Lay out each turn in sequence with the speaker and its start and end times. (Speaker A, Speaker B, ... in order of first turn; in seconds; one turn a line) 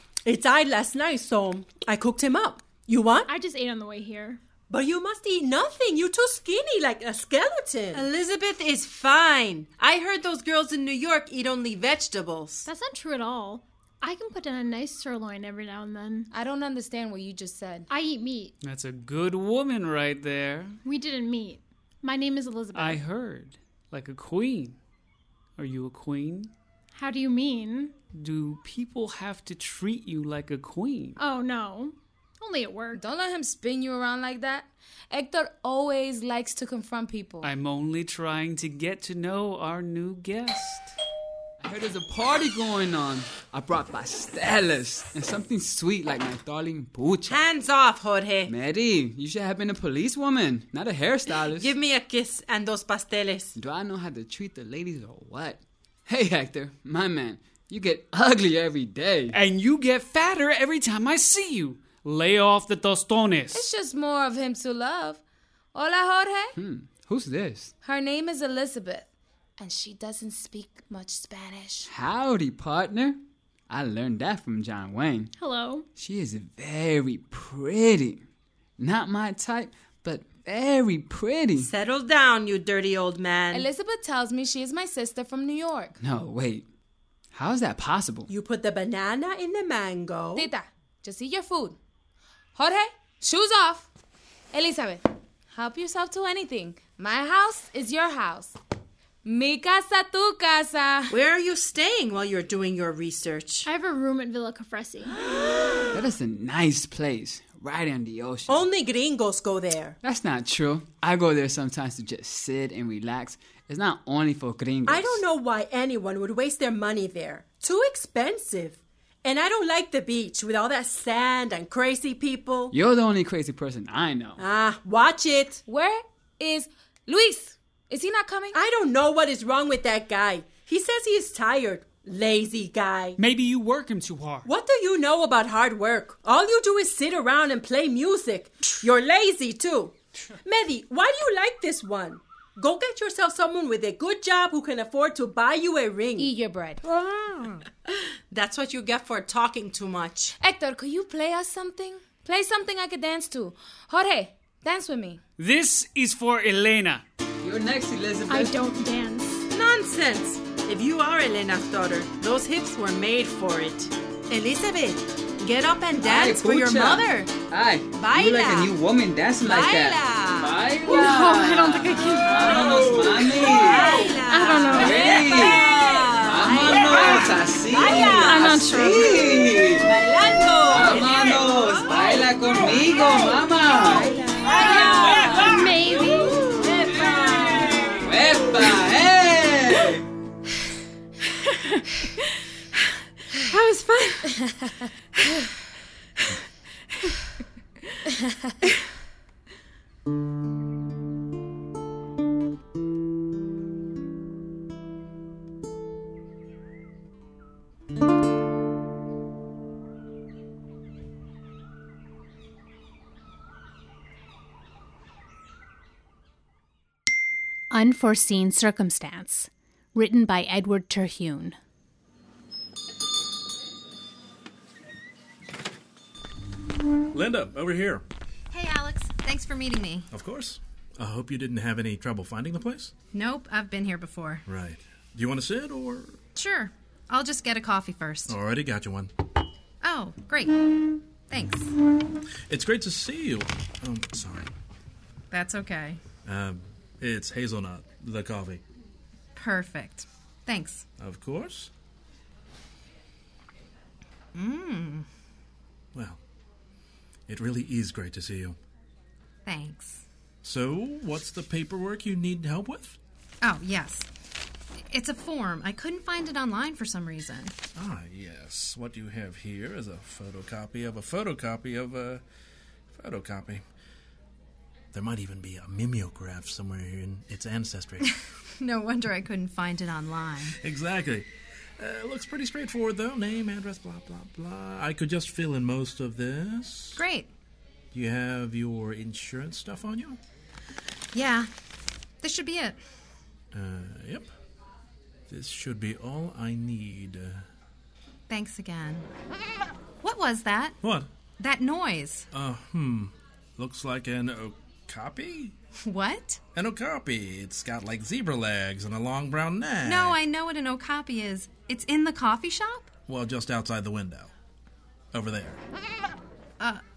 Speaker A: 0.2-3.3
Speaker B: 3.2-4.4
Speaker A: 4.7-8.1
Speaker C: 7.9-12.7
Speaker B: 12.7-16.3
Speaker D: 16.3-17.9
Speaker B: 17.9-18.5
Speaker E: 18.6-20.8
Speaker B: 20.8-23.0
Speaker E: 22.7-24.8
Speaker E: 25.6-26.5
Speaker B: 26.9-27.9
Speaker E: 28.1-31.2
Speaker B: 31.2-33.0
Speaker D: 32.9-37.5
Speaker E: 37.4-40.9
Speaker F: 41.6-47.4
Speaker C: 47.3-48.5
Speaker F: 48.5-51.7
Speaker C: 51.5-53.5
Speaker F: 53.5-59.4
Speaker E: 59.3-63.7
Speaker D: 63.5-65.2
Speaker D: 65.7-66.5
Speaker F: 66.5-67.7
Speaker D: 67.8-71.9
Speaker F: 71.9-75.3
Speaker B: 75.4-75.8
Speaker F: 75.9-78.2
Speaker F: 78.8-81.7
Speaker C: 81.6-83.7
Speaker D: 83.5-85.9
Speaker F: 86.0-86.7
Speaker F: 87.3-88.3
Speaker A: 88.3-90.5
Speaker D: 90.3-91.8
Speaker D: 92.5-93.9
Speaker D: 94.5-98.5
Speaker D: 99.2-101.1
Speaker C: 101.1-103.7
Speaker B: 103.6-105.2
Speaker F: 105.9-108.7
Speaker A: 108.5-110.0
Speaker F: 110.0-115.2
Speaker A: 114.8-122.7
Speaker F: 122.7-124.4
Speaker A: 124.4-125.6
Speaker D: 125.7-128.6
Speaker A: 128.5-133.2
Speaker E: 133.2-134.5
Speaker A: 134.4-146.3
Speaker D: 146.2-146.8
Speaker C: 148.3-150.3
Speaker D: 150.4-155.2
Speaker E: 155.4-157.0
Speaker F: 157.4-158.6
Speaker B: 158.3-159.4
Speaker C: 159.5-167.4
Speaker F: 165.9-174.1
Speaker C: 167.9-168.7
Speaker C: 169.4-170.6
Speaker B: 170.8-175.2
Speaker C: 172.4-185.5
Speaker A: 173.7-174.2
Speaker F: 174.7-179.9
Speaker A: 175.1-177.2
Speaker A: 177.7-178.3
Speaker B: 178.1-179.2
Speaker A: 179.8-181.3
Speaker F: 180.7-184.2
Speaker A: 183.8-185.5
Speaker B: 184.5-186.7
Speaker A: 186.7-188.0
Speaker C: 186.8-187.6
Speaker F: 188.0-190.0
Speaker B: 191.5-191.8
Speaker D: 194.2-195.5
Speaker D: 198.1-198.6
Speaker G: 217.7-221.6
Speaker H: 227.1-228.0
Speaker I: 228.5-230.1
Speaker H: 230.1-232.9
Speaker I: 233.1-234.4
Speaker H: 234.4-236.2
Speaker I: 236.3-238.3
Speaker H: 238.3-239.1
Speaker I: 239.8-240.6
Speaker I: 241.3-241.7
Speaker H: 242.5-244.5
Speaker I: 245.3-246.0
Speaker H: 246.2-248.6
Speaker I: 249.3-250.9
Speaker H: 251.0-251.7
Speaker I: 254.3-255.1
Speaker H: 255.9-256.2
Speaker H: 257.3-258.6
Speaker I: 259.4-260.0
Speaker H: 260.4-263.0
Speaker I: 263.4-264.1
Speaker I: 264.9-267.5
Speaker H: 267.7-272.2
Speaker H: 272.9-273.6
Speaker H: 274.9-278.1
Speaker I: 278.0-280.6
Speaker H: 280.5-287.0
Speaker I: 286.9-287.3
Speaker H: 287.9-290.2
Speaker I: 291.1-291.5
Speaker I: 292.2-292.8
Speaker H: 293.5-294.3
Speaker H: 295.3-297.4
Speaker I: 298.3-299.1
Speaker I: 300.0-300.8
Speaker H: 300.8-301.1
Speaker I: 301.4-302.3
Speaker H: 302.3-305.5
Speaker I: 305.8-306.4
Speaker H: 306.5-310.2
Speaker I: 309.8-312.9
Speaker H: 313.1-314.3
Speaker H: 315.1-315.6